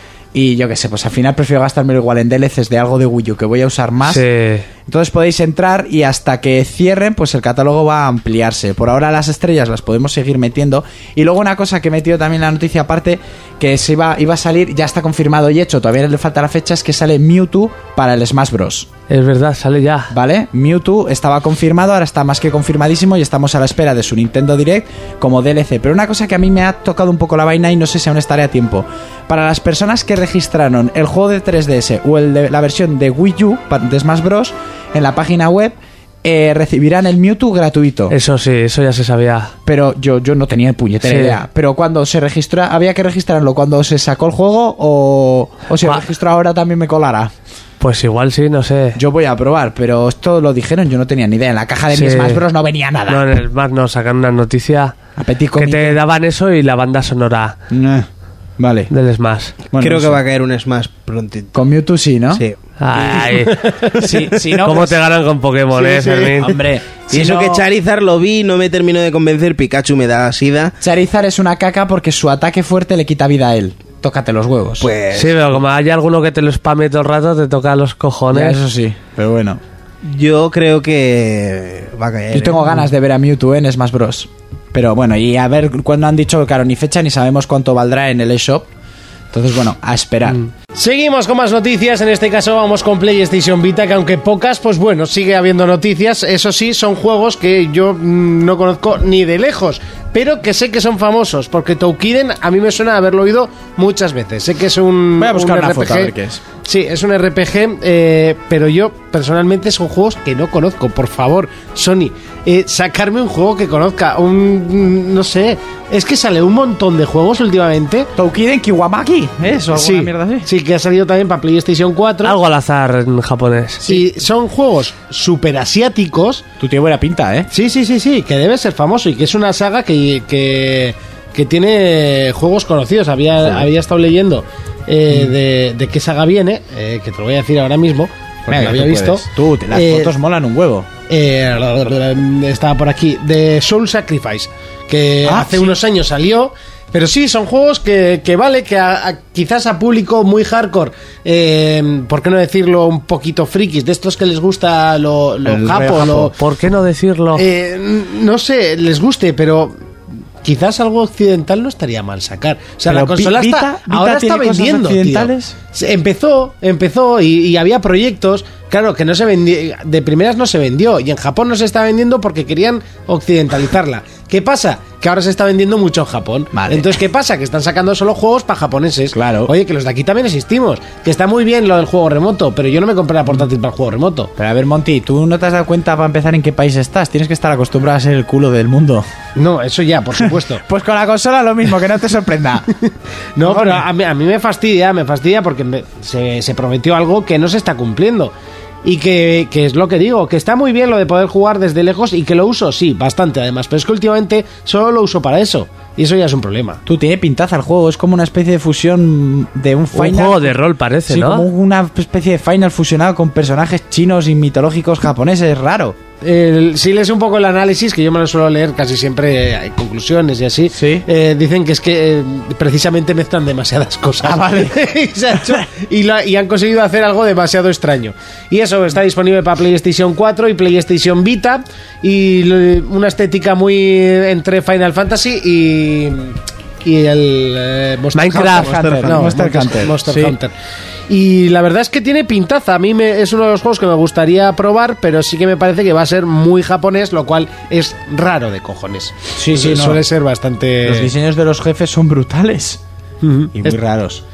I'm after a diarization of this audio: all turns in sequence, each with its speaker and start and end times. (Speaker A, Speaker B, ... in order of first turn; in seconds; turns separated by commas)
Speaker A: 0.3-4.2, Speaker B: 4.1-4.7, Speaker A: 4.9-18.9, Speaker B: 19.1-20.1, Speaker A: 20.1-38.2, Speaker B: 38.1-39.5, Speaker A: 39.7-47.3, Speaker B: 41.0-41.4, Speaker B: 47.8-49.0, Speaker A: 49.0-53.3, Speaker B: 51.9-52.4, Speaker B: 53.1-55.0, Speaker A: 55.2-56.0, Speaker B: 55.5-57.6, Speaker A: 57.7-58.1, Speaker A: 58.6-58.9, Speaker B: 58.9-59.6, Speaker A: 59.7-60.2, Speaker C: 59.8-61.6, Speaker A: 61.5-62.4, Speaker C: 62.3-62.6, Speaker B: 62.8-63.7, Speaker D: 63.7-63.9, Speaker A: 64.0-65.0, Speaker B: 64.6-66.6, Speaker A: 66.3-67.7, Speaker C: 67.1-70.8, Speaker A: 70.8-74.9, Speaker C: 74.8-75.6, Speaker B: 75.1-78.6, Speaker A: 78.3-79.6, Speaker C: 80.0-82.9, Speaker A: 82.3-88.7, Speaker A: 89.3-90.4, Speaker D: 90.3-118.1, Speaker A: 105.2-106.4, Speaker A: 118.2-120.5, Speaker D: 119.7-122.4, Speaker B: 122.2-123.9, Speaker D: 123.8-126.5, Speaker A: 126.6-127.5, Speaker D: 127.5-140.1, Speaker A: 138.5-140.9, Speaker D: 141.1-156.4, Speaker A: 145.2-145.7, Speaker A: 155.4-156.3, Speaker B: 156.4-157.4, Speaker D: 157.3-159.7, Speaker D: 160.4-184.3, Speaker A: 162.9-165.6, Speaker A: 176.5-177.0, Speaker A: 179.1-179.5, Speaker A: 184.4-189.1, Speaker D: 189.4-190.6, Speaker A: 190.6-192.8, Speaker D: 193.4-198.3, Speaker A: 193.4-193.8, Speaker D: 198.8-206.8, Speaker A: 206.9-216.0, Speaker B: 209.9-211.5, Speaker D: 216.2-240.5, Speaker A: 220.7-221.1, Speaker A: 224.2-224.8, Speaker B: 238.1-238.8, Speaker A: 238.5-240.4, Speaker C: 238.6-239.4, Speaker D: 241.1-251.1, Speaker A: 249.4-250.0, Speaker A: 250.8-252.8, Speaker D: 253.2-253.8, Speaker A: 253.5-254.2